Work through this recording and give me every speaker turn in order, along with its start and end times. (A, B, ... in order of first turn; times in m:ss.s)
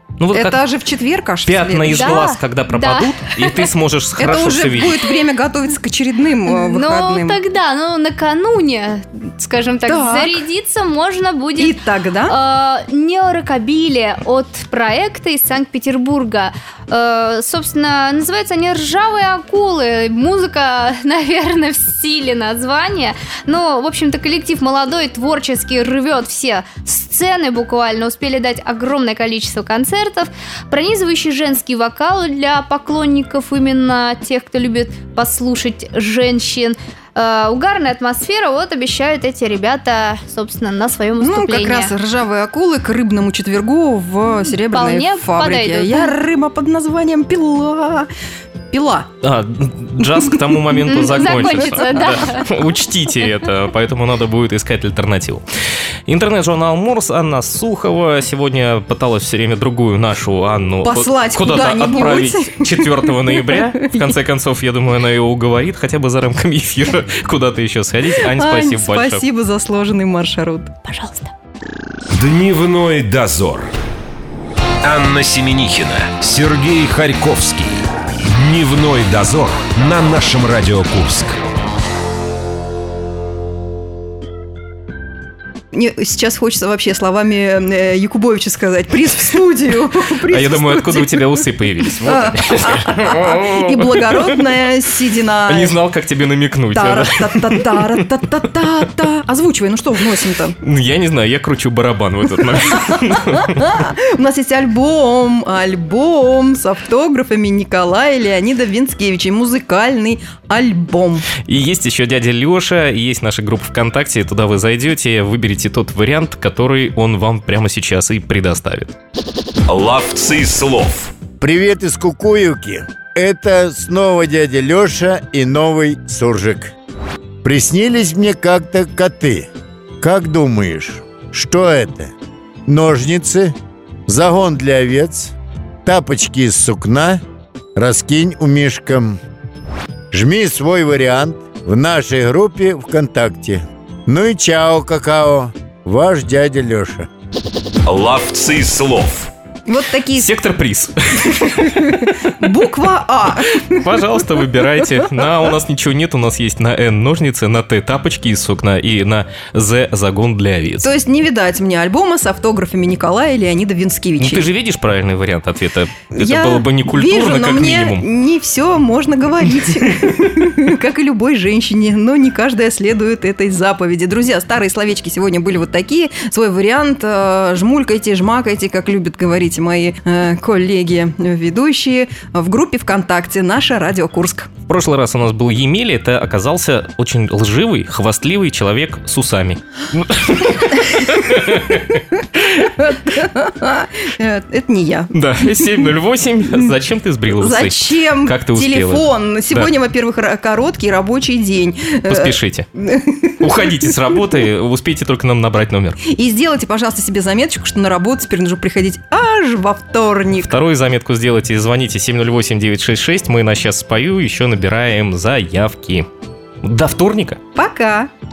0:00.2-0:00.6 A
0:00.3-0:02.2 B
0:01.4-0:05.0 A
0:01.9-0:03.7 C
0:04.2-0:07.4 B
0:06.5-0:41.9 C
0:09.8-0:10.4 B
0:11.6-0:12.4 B
0:41.2-0:48.1 B
0:44.7-0:46.1 C
0:48.7-0:49.1 B
0:49.2-0:55.4 A
0:50.9-0:52.6 C
0:50.9-0:52.1 B
0:56.1-1:09.2 A
1:00.8-1:04.1 B
1:08.4-1:10.8 B
1:10.9-1:11.3 C
1:12.1-1:13.7 D
1:14.8-1:21.4 D
1:25.7-1:31.4 B
1:30.3-1:34.6 A
1:32.0-1:35.8 B
1:35.5-1:38.0 A
1:36.7-1:40.6 B
1:40.6-1:43.6 A
1:42.6-1:51.3 B
1:51.4-1:58.9 A
1:59.7-2:01.1 D
2:01.4-2:06.7 E
2:07.4-2:09.5 E
2:10.0-2:12.1 E
2:12.7-2:13.6 E
2:14.1-2:15.3 E
2:15.8-2:17.2 E
2:17.8-2:19.2 E
2:20.1-2:27.1 E
2:27.9-2:29.3 D
2:29.7-2:30.3 B
2:30.2-2:32.1 A
2:31.4-2:34.0 B
2:33.6-2:40.9 A
2:40.8-2:44.5 B
2:44.2-2:48.0 A
2:46.1-3:04.5 B
3:04.7-3:12.0 A
3:12.4-3:15.9 B
3:15.1-3:19.7 A
3:17.3-3:23.7 B
3:22.1-3:22.7 A
3:23.4-3:26.0 A
3:26.0-3:30.5 B
3:30.4-3:36.1 A
3:36.6-3:37.4 A
3:37.6-3:38.1 B